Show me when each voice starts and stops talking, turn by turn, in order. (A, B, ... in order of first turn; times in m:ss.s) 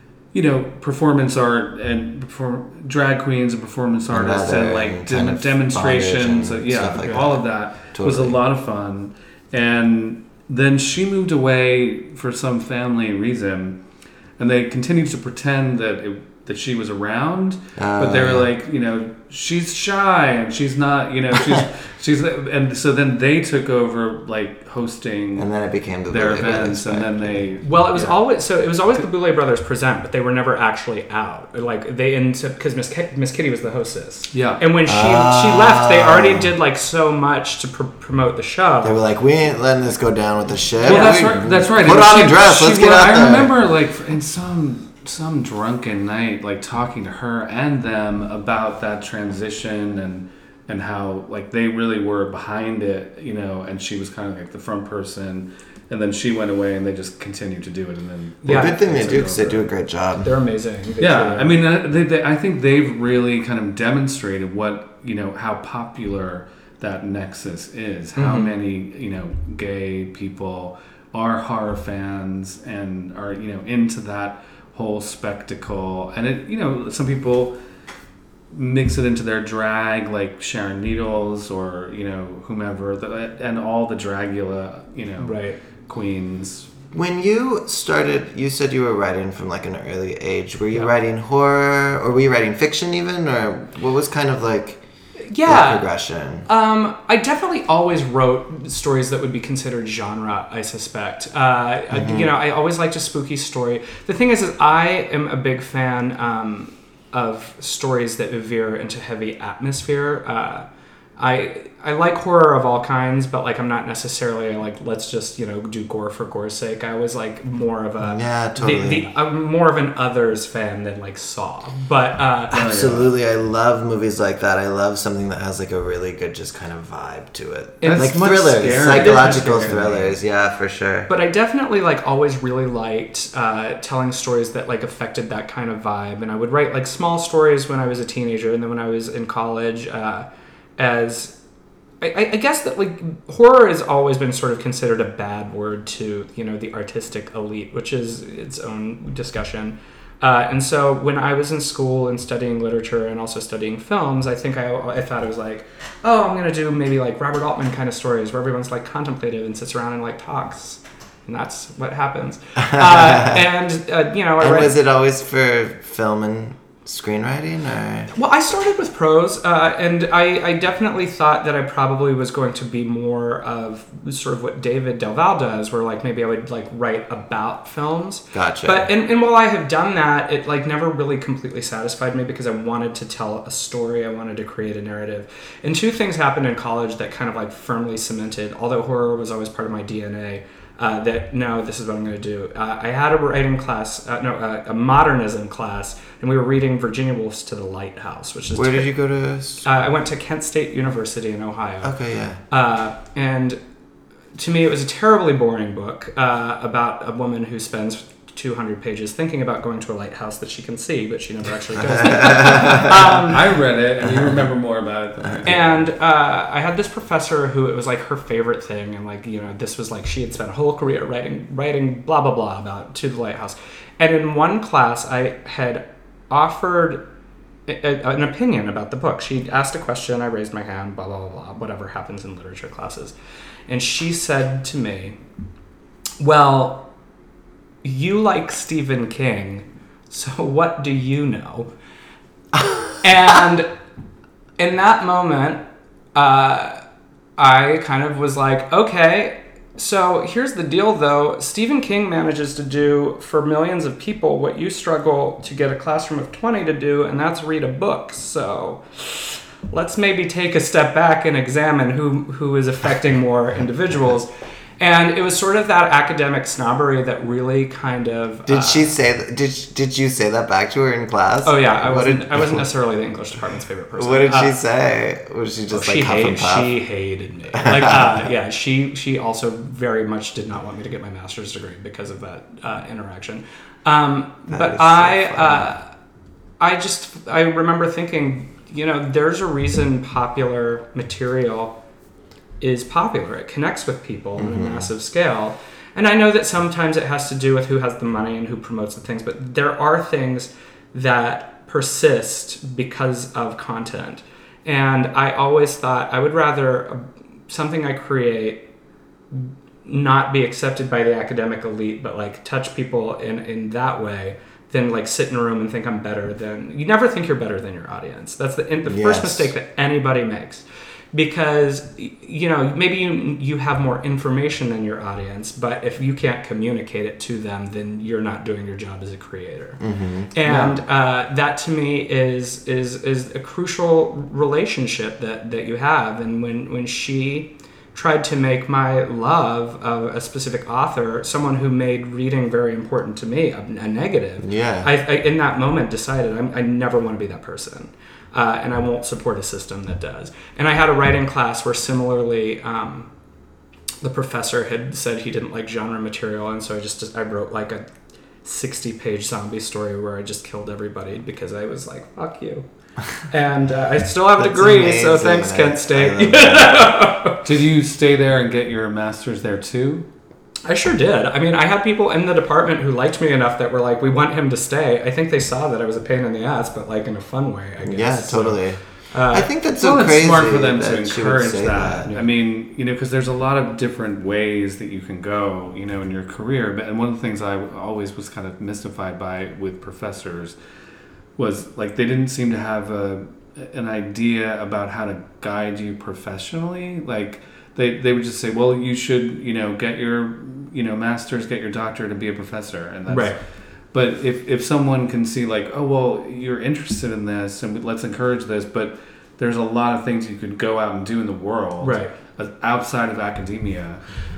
0:00.3-0:13.8 A
0:04.1-0:08.4 B
0:14.4-0:25.5 A
0:17.8-0:18.5 B
0:25.4-0:27.4 B
0:26.1-0:28.2 A
0:27.6-0:39.0 C
0:34.3-0:34.6 A
0:34.9-0:36.5 B
0:38.8-0:43.5 B
0:40.8-0:41.3 C
0:40.8-0:59.7 A
0:58.4-0:58.8 C
0:58.5-1:00.3 B
1:00.2-1:01.6 C
1:01.0-1:17.6 A
1:08.2-1:08.6 C
1:18.5-1:26.7 A
1:25.2-1:25.6 C
1:26.9-1:34.8 B
1:35.2-1:35.9 C
1:35.4-1:36.5 B
1:36.4-1:50.7 C
1:41.9-1:42.3 B
1:51.2-2:02.6 C
1:58.0-1:59.1 B
2:02.5-2:03.1 A
2:02.5-2:11.1 B
2:07.8-2:09.8 C
2:07.8-2:10.2 A
2:11.1-2:20.3 C
2:20.8-2:21.4 C
2:22.0-2:44.8 C
2:42.7-2:43.4 B
2:44.4-2:48.1 B
2:48.1-3:18.9 C
2:58.3-2:58.9 B
3:18.6-3:19.6 B
3:19.6-3:22.0 C
3:21.8-3:22.4 B
3:22.5-3:23.6 C
3:24.4-3:33.5 C
3:32.0-3:32.9 B
3:32.6-3:35.9 A
3:35.4-3:47.1 C
3:47.7-3:53.2 C
3:53.7-3:55.2 C
3:56.2-3:56.9 C
3:57.8-4:01.7 C
4:03.0-4:03.7 C
4:04.6-4:05.6 C
4:06.2-4:06.8 C
4:07.4-4:24.3 C
4:24.8-4:28.9 C
4:28.5-4:32.6 B
4:31.4-4:34.6 C
4:34.0-4:36.8 B
4:35.7-4:45.9 C
4:37.5-4:38.2 B
4:44.5-4:45.7 B
4:46.6-4:51.8 C
4:52.6-5:08.6 C
4:54.4-4:54.9 B
5:09.3-5:29.8 C
5:18.9-5:19.5 B
5:29.8-5:30.4 B
5:30.3-5:53.1 C
5:30.5-5:30.8 A
5:44.4-5:44.9 B
5:54.0-5:57.9 C
5:58.4-6:02.7 C
6:03.2-6:07.4 C
6:04.4-6:06.8 B
6:07.4-6:10.1 A
6:10.7-6:19.5 C
6:17.8-6:22.1 B
6:19.8-6:30.6 A
6:22.0-6:22.3 C
6:31.4-6:54.0 A
6:43.1-6:43.4 C
6:51.8-6:52.1 C